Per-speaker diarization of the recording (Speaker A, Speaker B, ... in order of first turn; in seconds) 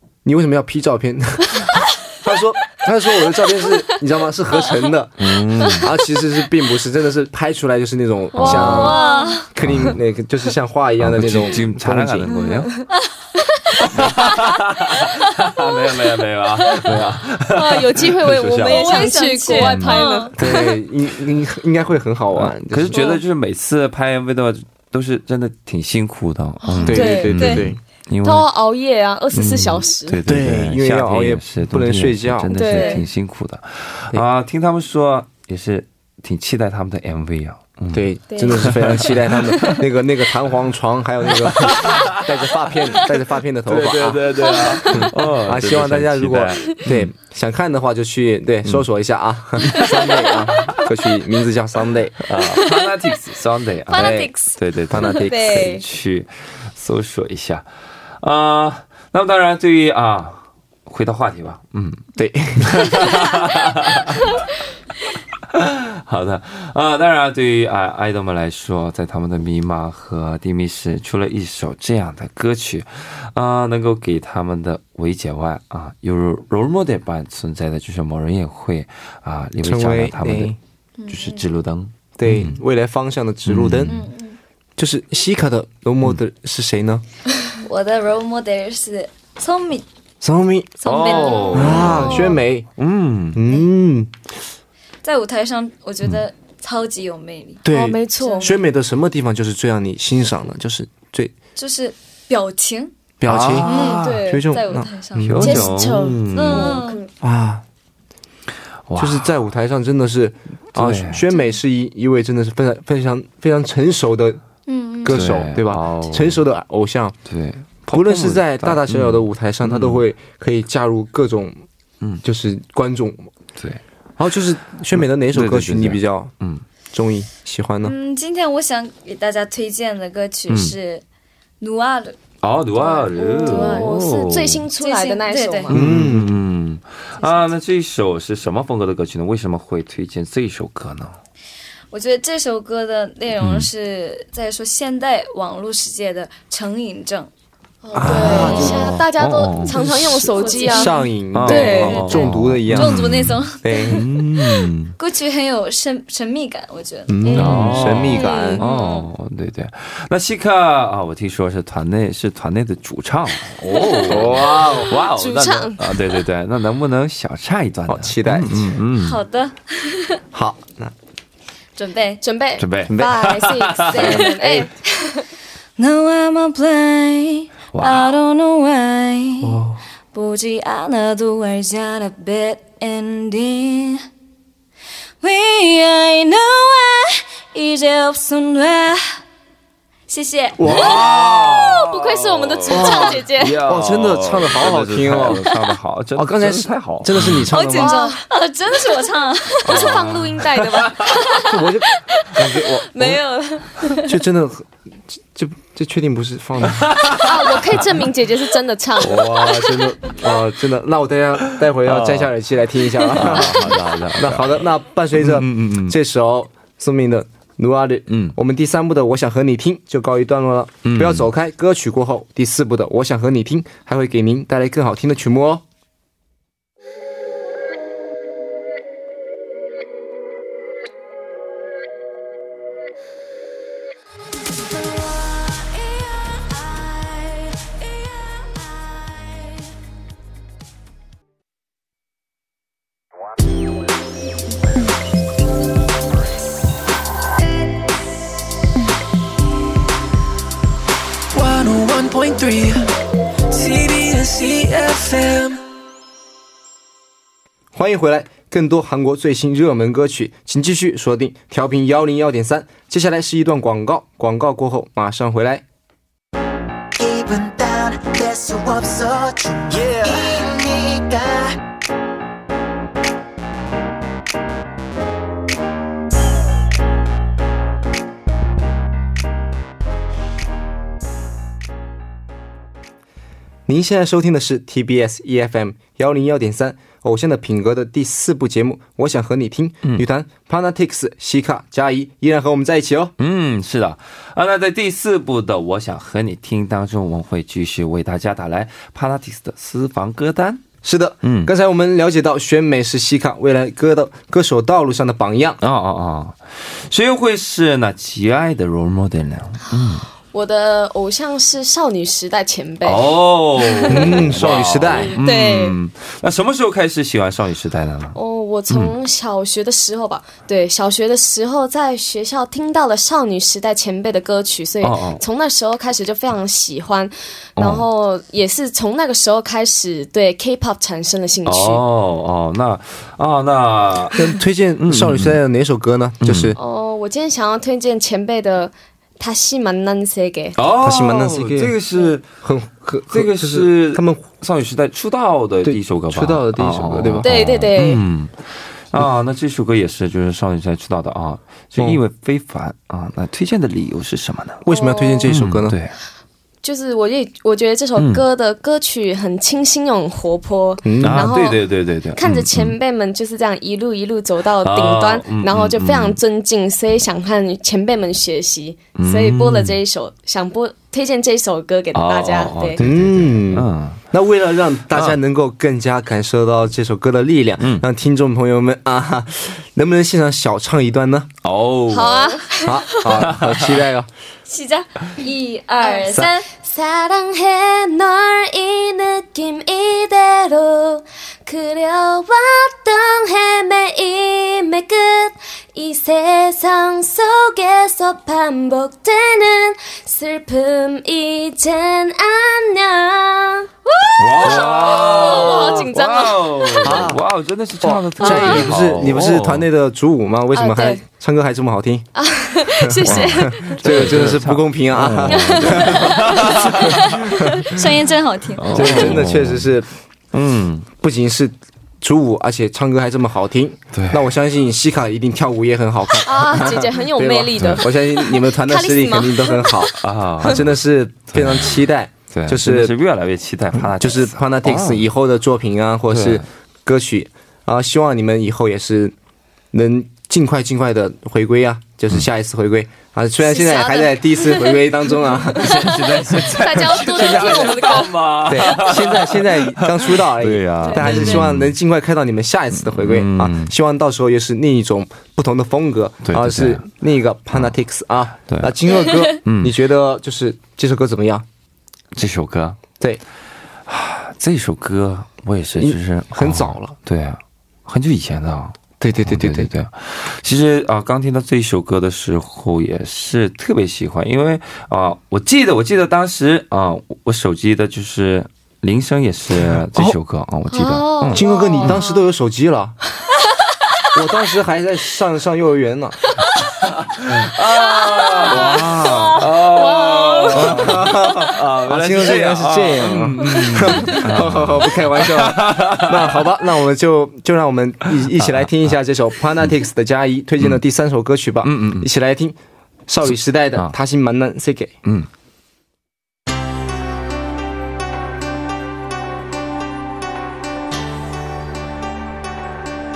Speaker A: 0.2-9.0, 9.5-12.4, 20.4-23.0, 26.9-27.8, 30.3-32.9, 37.9-52.2, 53.9-54.3, 54.9-55.5, 62.2-63.0, 79.6-80.6, 82.2-84.0, 84.8-87.0, 90.2-90.8, 91.5-92.7, 93.3-94.1, 97.6-101.3, 103.2-105.7, 107.2-107.6, 109.0-114.4, 115.0-117.2, 117.9-121.6, 122.2-123.3, 124.2-126.3, 126.9-127.9, 135.7-136.4, 147.9-149.0, 149.7-153.1, 153.6-154.1, 157.1-158.6, 164.1-164.9, 167.9-168.8, 170.3-170.9, 172.9-173.2, 174.4-174.7, 179.4-179.8, 190.6-191.2, 192.7-195.6, 196.2-198.0, 199.7-200.2, 201.4-203.2, 204.1-207.0, 209.0-225.6, 257.7-265.6, 283.7-293.1, 300.8-305.6, 313.9-315.2, 334.1-336.6, 340.8-341.7, 342.4-344.3, 345.6-347.3, 354.6-355.8, 360.8-361.3, 372.8-381.3, 382.6-384.1, 404.4-405.9, 406.8-407.2, 407.8-412.1, 412.7-417.6, 418.7-419.9, 421.0-432.9, 433.8-439.1, 439.7-447.8, 448.4-461.4, 465.8-467.0, 469.0-469.7, 479.5-480.2, 481.3-483.0, 484.1-486.2, 488.5-489.5, 490.5-502.6, 503.1-504.9
Speaker B: 5.2-5.9, 8.4-8.9, 9.6-10.0, 11.0-12.7, 13.9-20.0, 22.3-28.5, 29.3-39.8, 41.4-42.3, 43.7-47.1, 49.7-50.0, 52.2-57.7, 58.2-62.1, 62.6-64.4, 65.5-80.6, 81.1-82.6, 83.5-84.0, 90.8-93.4, 103.3-104.3, 105.2-106.8, 108.9-109.3, 110.7-111.2, 115.1-116.4, 117.3-120.0, 125.0-126.6, 130.5-130.8, 132.4-134.7, 135.7-141.2, 143.4-143.7, 148.0-150.2, 151.3-154.9, 157.4-169.2, 172.6-174.3, 177.7-178.1, 190.6-197.5, 199.7-201.2, 206.6-207.9, 209.0-209.5, 211.6-212.3, 213.1-214.7, 215.2-216.0, 218.1-218.4, 220.8-221.3, 293.2-300.6, 301.2-301.5, 305.6-310.1, 312.8-318.2, 318.7-318.9, 324.8-325.2, 327.6-327.9, 331.5-335.4, 336.2-336.6, 340.6-342.3, 343.1-354.6, 355.3-356.0, 358.0-358.2, 361.0-362.8, 364.6-366.2, 369.0-369.8, 371.9-374.0, 374.9-375.2, 377.6-377.9, 381.4-382.3, 383.2-383.9, 404.2-409.7, 413.1-417.3, 418.6-419.7, 420.3-420.9, 423.9-424.3, 427.6-427.9, 430.0-430.7, 431.3-435.1, 436.1-436.4, 445.6-451.8, 452.8-453.7, 456.2-456.9, 458.5-458.8, 459.4-459.8, 462.1-462.8, 463.9-482.0, 486.8-496.5, 498.2-498.9, 501.6-502.1
Speaker C: 8.3-9.5, 12.4-12.8, 13.4-13.9, 17.5-20.7, 26.7-27.6, 28.2-30.2, 32.5-33.0, 38.3-39.1, 44.5-45.0, 55.1-55.8, 91.3-92.4, 97.7-98.6, 103.7-104.6, 105.4-107.1, 132.8-135.8, 147.8-152.3, 157.2-158.6, 164.1-166.0, 172.2-175.3, 190.8-193.6, 197.6-198.2, 199.7-201.5, 202.9-204.1, 207.2-209.7, 213.0-213.5, 310.3-314.3, 315.1-315.8, 318.1-331.8, 336.6-340.6, 347.2-348.0, 354.7-355.3, 356.6-361.6, 362.2-372.8, 381.9-382.9, 385.8-407.1, 408.2-408.7, 410.5-411.0, 412.1-414.2, 415.3-417.6, 426.2-429.9, 443.4-448.8, 450.8-451.4, 480.7-482.2, 487.9-491.1
Speaker D: 8.6-9.5, 18.6-20.4, 22.9-23.2, 26.7-27.6, 32.7-33.0, 53.9-54.6, 81.0-81.5, 83.9-84.4, 87.6-89.8, 90.8-92.3, 95.0-97.6, 98.2-98.6, 101.6-102.9, 103.7-105.7, 106.3-107.0, 114.7-115.3, 127.8-131.0, 131.6-132.2, 132.8-134.0, 134.8-135.7, 141.9-147.3, 148.1-148.7, 150.3-154.0, 154.9-157.7, 158.6-159.1, 163.8-164.2, 169.0-170.2, 171.8-172.2, 173.9-174.6, 175.8-179.6, 180.1-184.1, 185.2-189.2, 190.1-190.7, 197.5-199.9, 384.5-386.5, 417.6-419.1
Speaker E: 251.3-252.9, 253.5-255.6
Speaker F: 267.0-271.6